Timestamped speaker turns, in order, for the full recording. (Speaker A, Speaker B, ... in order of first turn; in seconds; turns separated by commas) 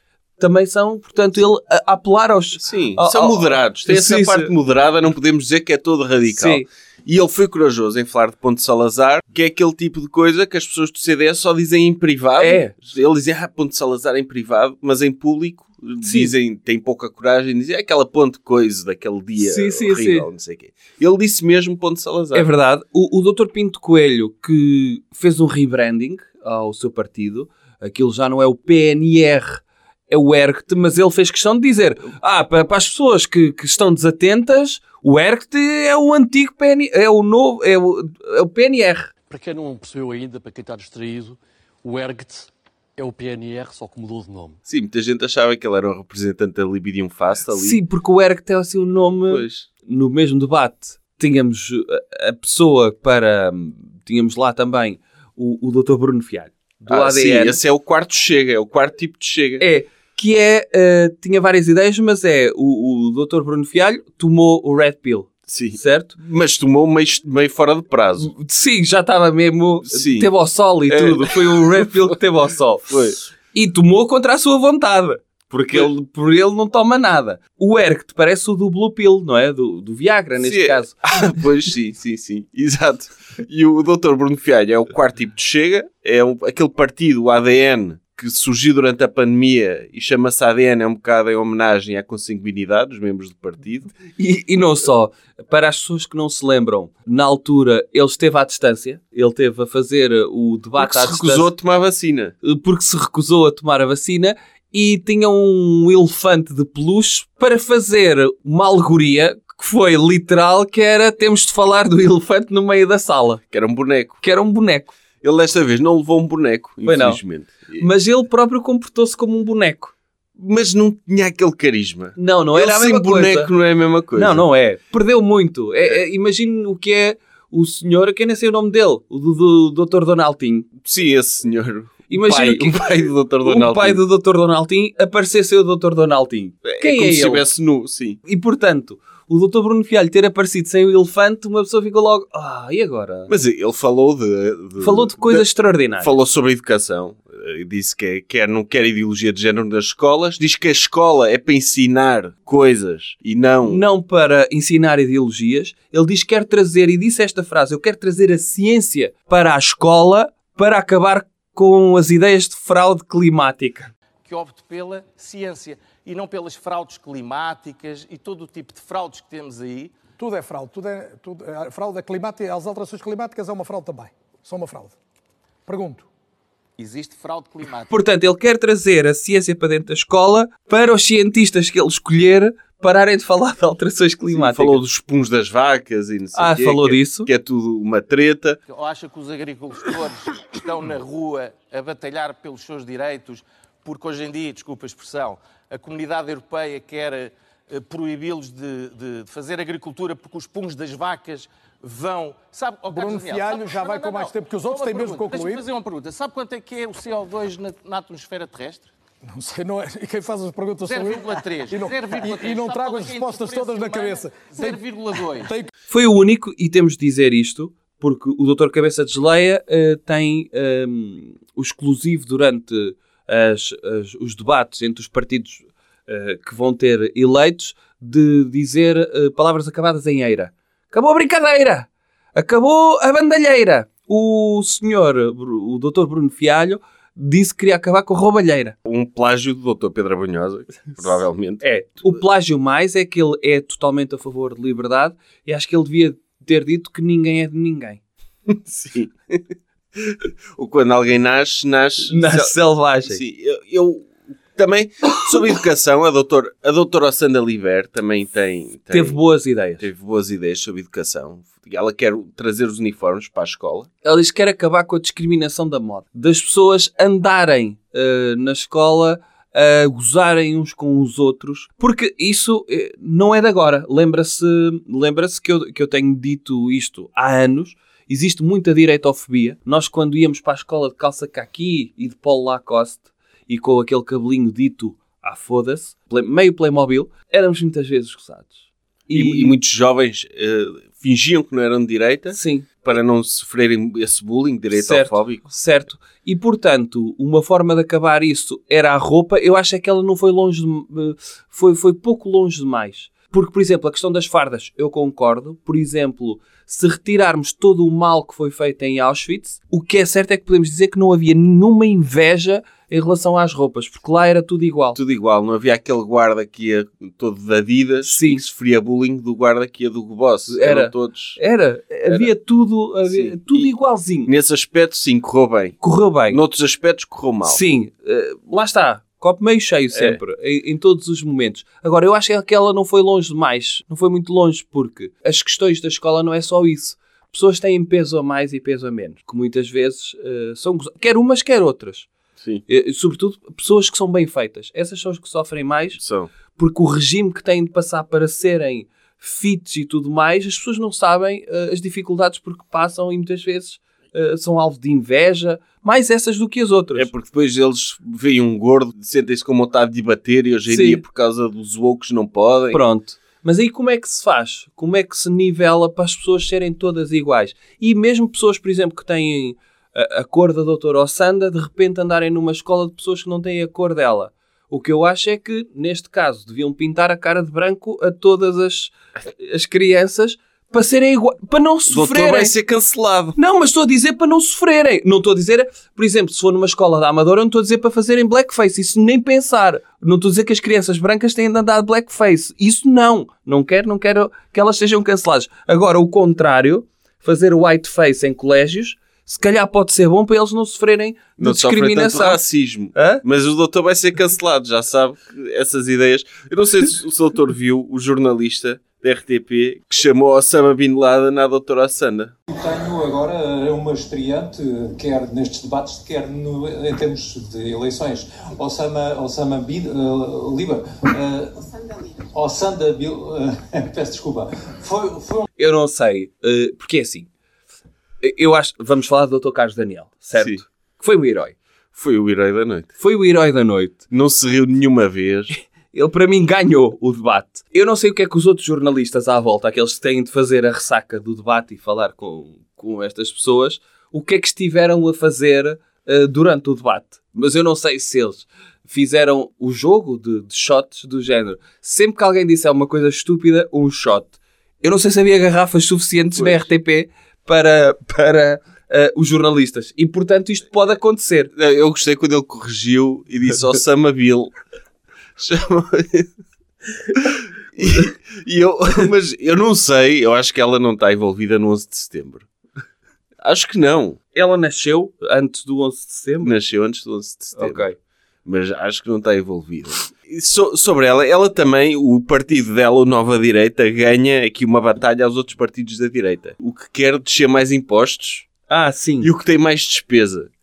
Speaker A: 0.4-4.5, Speaker B: 2.6-22.5, Speaker A: 6.3-6.7, Speaker A: 12.4-12.7, Speaker A: 16.0-16.3, Speaker A: 19.4-20.2, Speaker A: 22.3-39.1, Speaker C: 39.3-44.6, Speaker B: 44.7-47.8, Speaker A: 47.5-57.6, Speaker B: 49.3-49.7, Speaker B: 56.9-59.7, Speaker A: 59.6-66.2, Speaker B: 65.5-68.3, Speaker A: 68.2-73.0, Speaker B: 69.8-70.3, Speaker B: 70.9-72.1, Speaker B: 72.9-73.2, Speaker A: 73.5-80.9, Speaker B: 80.4-94.0, Speaker A: 94.2-101.5, Speaker B: 100.8-102.3, Speaker A: 102.4-113.4, Speaker B: 113.5-114.2, Speaker A: 114.2-114.9, Speaker B: 115.2-117.9, Speaker A: 116.8-117.2, Speaker A: 117.8-119.9, Speaker B: 120.3-124.4, Speaker A: 122.2-123.5, Speaker A: 124.1-130.7, Speaker B: 130.8-134.0, Speaker A: 132.1-137.5, Speaker B: 136.6-138.2, Speaker A: 138.2-143.3, Speaker B: 143.3-145.4, Speaker A: 144.8-146.1, Speaker B: 146.0-153.8, Speaker A: 153.7-163.9, Speaker D: 164.2-169.9, Speaker E: 170.2-174.9, Speaker E: 175.7-176.1, Speaker D: 176.8-178.0, Speaker A: 177.9-184.8, Speaker B: 184.3-188.6, Speaker A: 186.3-187.3, Speaker D: 188.7-208.9, Speaker E: 202.9-205.7, Speaker E: 209.2-215.7, Speaker D: 210.8-215.5, Speaker A: 215.9-238.8, Speaker B: 238.8-242.2, Speaker A: 241.6-248.0, Speaker B: 248.5-259.2, Speaker A: 252.0-253.2, Speaker A: 258.9-259.9, Speaker B: 259.8-263.9, Speaker A: 264.0-289.6, Speaker B: 289.1-295.4, Speaker A: 292.3-292.7, Speaker A: 294.7-315.0, Speaker B: 314.9-321.4, Speaker A: 318.0-318.4, Speaker A: 320.5-324.3, Speaker B: 323.0-327.6, Speaker A: 325.8-326.4, Speaker A: 327.4-342.1, Speaker B: 329.9-330.2, Speaker B: 342.4-342.6, Speaker A: 342.7-346.0, Speaker B: 345.9-346.3, Speaker A: 346.5-357.1, Speaker B: 356.9-362.8, Speaker A: 360.7-361.0, Speaker A: 362.7-382.5, Speaker B: 381.9-383.4, Speaker A: 383.4-402.4, Speaker B: 401.4-412.3, Speaker A: 402.9-403.2, Speaker F: 412.5-425.5, Speaker A: 425.6-427.3, Speaker A: 428.2-431.6, Speaker B: 430.4-430.6, Speaker B: 431.9-432.9, Speaker A: 433.0-434.0, Speaker B: 434.1-435.5, Speaker A: 435.5-461.5, Speaker B: 456.4-456.6, Speaker B: 461.6-464.5, Speaker B: 465.4-466.3, Speaker B: 467.1-472.5, Speaker B: 473.4-474.2, Speaker A: 474.3-476.5, Speaker B: 476.4-477.9, Speaker A: 477.6-478.0, Speaker B: 478.4-488.5, Speaker A: 488.7-489.3, Speaker B: 489.2-490.5